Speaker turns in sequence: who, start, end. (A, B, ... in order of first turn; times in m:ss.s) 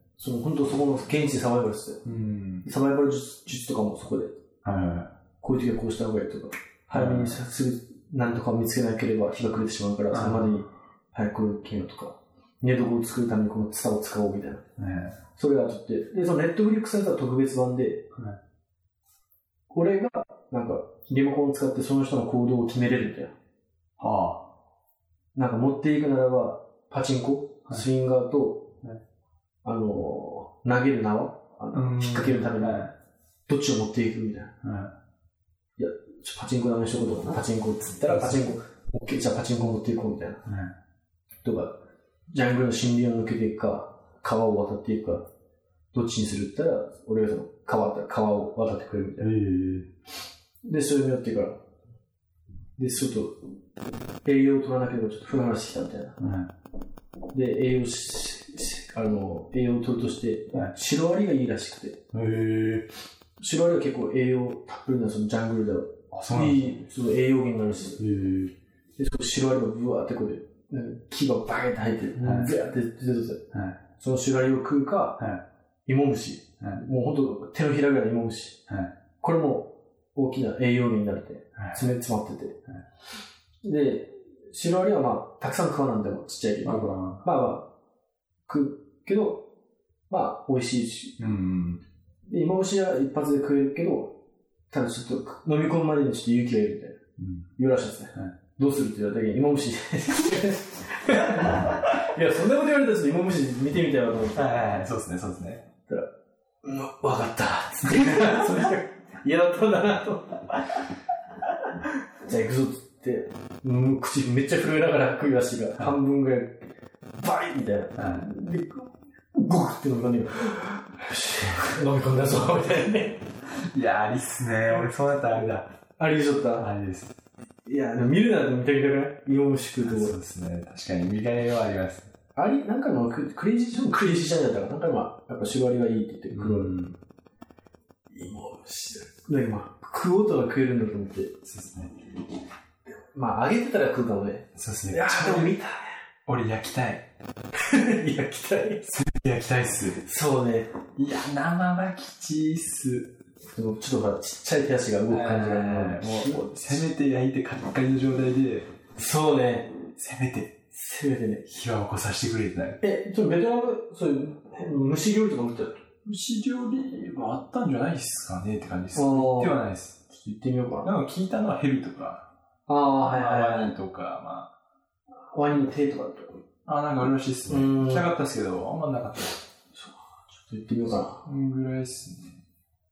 0:00.2-0:02.0 A
0:02.0-0:02.6 B
0:02.6-0:04.3 A
0:04.6-0:05.1 B
0:05.4-0:14.6 A
0:06.9-0:07.4 B
0:10.1-0:10.6 B
0:14.8-0:15.2 B
0:15.4-0:18.0 A
0:18.1-0:18.4 B
0:19.7-0:23.3 A
0:24.0-0:24.5 B
0:25.3-0:28.7 A
0:29.6-0:32.8 A
0:31.7-0:32.9 B
0:33.5-0:34.5 A
0:34.6-0:34.9 B
0:35.8-0:40.4 A
0:38.0-0:38.4 B
0:40.4-0:40.7 B
0:41.4-0:41.8 A
0:42.3-0:45.2 A
0:45.9-0:49.3 A
0:49.2-0:49.9 B
0:50.6-0:51.6 A
0:52.8-0:53.4 A
0:54.2-0:56.2 A
0:56.2-0:56.5 B
0:57.3-1:02.0 A
1:02.1-1:02.9 B
1:03.4-1:08.0 A
1:06.1-1:06.8 B
1:08.0-1:08.5 B
1:09.0-1:13.5 A
1:12.2-1:12.5 B
1:13.5-1:13.8 B
1:14.0-1:15.2 A
1:15.8-1:18.6 A
1:19.2-1:22.6 A
1:21.6-1:21.8 B
1:23.6-1:27.7 A
1:26.6-1:27.2 B
1:28.5-1:29.4 A
1:30.1-1:31.2 A
1:31.2-1:31.8 B
1:32.3-1:34.1 A
1:34.7-1:37.0 A
1:37.2-1:37.5 B
1:37.6-1:44.4 A
1:41.1-1:41.8 B
1:44.3-1:45.6 B
1:46.6-1:50.6 A
1:47.8-1:48.8 B
1:52.2-1:56.6 A
1:57.1-2:03.2 A
1:58.0-1:58.2 B
2:03.5-2:05.7 B
2:06.0-2:06.7 A
2:06.6-2:07.1 B
2:07.6-2:10.1 A
2:09.8-2:12.1 B
2:12.3-2:16.7 A
2:16.3-2:17.0 B
2:18.1-2:21.4 A
2:21.4-2:22.0 B
2:22.8-2:26.0 A
2:24.5-2:25.5 B
2:26.2-2:27.0 B
2:27.5-2:28.9 A
2:28.8-2:30.0 B
2:30.0-2:30.7 A
2:31.0-2:33.1 B
2:33.5-2:36.9 A
2:35.1-2:38.7 B
2:38.9-2:39.7 A
2:40.0-2:40.6 B
2:40.7-2:41.4 A
2:41.4-2:42.8 B
2:42.8-2:45.8 A
2:46.0-2:50.0 B
2:48.9-2:50.9 A
2:50.8-2:52.3 B
2:52.7-2:53.8 A
2:53.0-2:54.5 B
2:55.3-2:56.4 A
2:56.6-2:59.4 B
2:57.5-2:58.1 A
2:59.7-3:01.2 A
3:01.2-3:02.4 B